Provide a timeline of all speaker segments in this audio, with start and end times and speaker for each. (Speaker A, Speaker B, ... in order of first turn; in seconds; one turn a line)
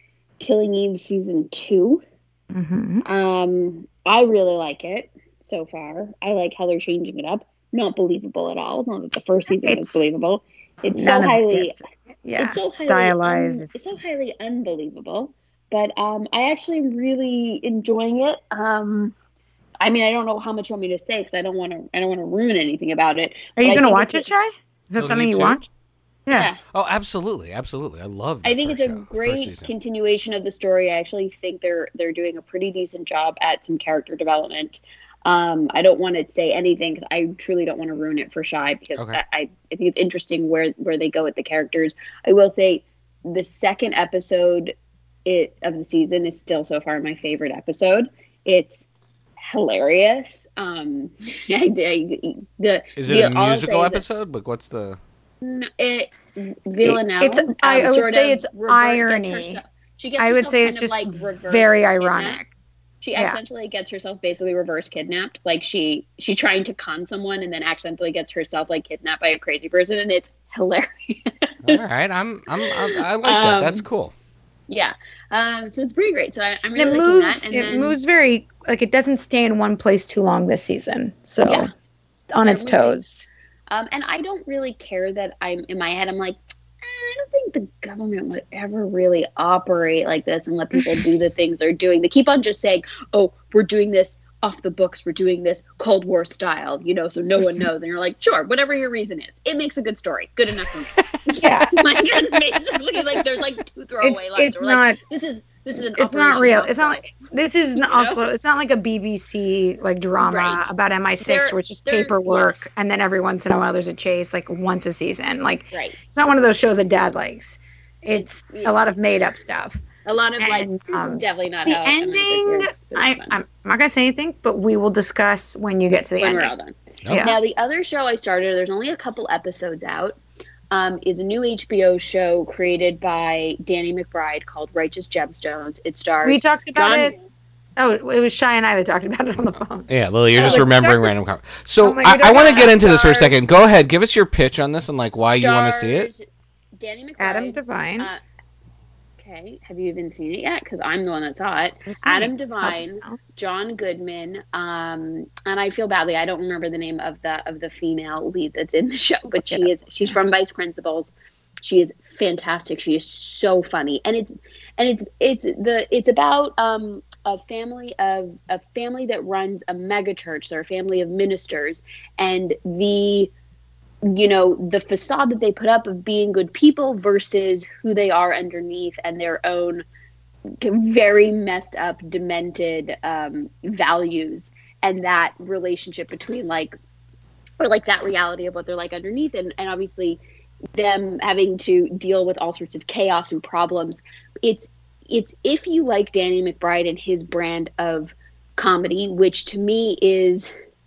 Speaker A: 0.4-2.0
Speaker B: 2.5-3.0
Speaker A: 3.0-11.8
Speaker B: 9.5-10.1
Speaker B: 10.9-14.0
Speaker A: 12.4-19.1
Speaker A: 19.8-24.3
Speaker B: 23.6-25.7
Speaker C: 25.0-25.6
Speaker A: 26.3-26.6
Speaker C: 26.7-29.7
Speaker A: 28.4-44.8
Speaker C: 39.0-39.2
Speaker A: 45.3-48.9
Speaker A: 49.4-54.0
Speaker C: 53.0-55.0
Speaker A: 55.4-62.5
Speaker B: 56.8-59.6
Speaker B: 60.2-62.5
Speaker A: 63.0-71.8
Speaker C: 71.7-74.1
Speaker A: 72.6-73.8
Speaker A: 74.7-78.0
Speaker B: 76.8-81.7
Speaker A: 81.4-81.7
Speaker B: 82.3-83.3
Speaker A: 82.4-83.0
Speaker A: 83.7-107.0
Speaker B: 90.8-91.0
Speaker C: 101.0-101.4
Speaker B: 101.3-101.8
Speaker B: 104.0-105.0
Speaker B: 106.0-119.8
Speaker A: 107.8-108.3
Speaker A: 110.2-112.7
Speaker A: 115.7-116.0
Speaker A: 118.1-118.8
Speaker A: 120.0-123.4
Speaker B: 120.4-126.5
Speaker A: 126.2-130.2
Speaker B: 127.1-127.3
Speaker A: 130.7-137.1
Speaker B: 136.2-137.1
Speaker B: 137.8-141.1
Speaker C: 139.9-146.1
Speaker A: 140.4-140.7
Speaker B: 141.8-143.5
Speaker A: 142.3-142.7
Speaker A: 145.3-146.2
Speaker A: 146.8-148.2
Speaker B: 147.2-148.1
Speaker A: 149.2-161.1
Speaker B: 151.9-153.2
Speaker A: 161.6-173.3
Speaker A: 174.0-179.8
Speaker A: 180.6-186.7
Speaker A: 187.6-190.2
Speaker A: 190.7-200.5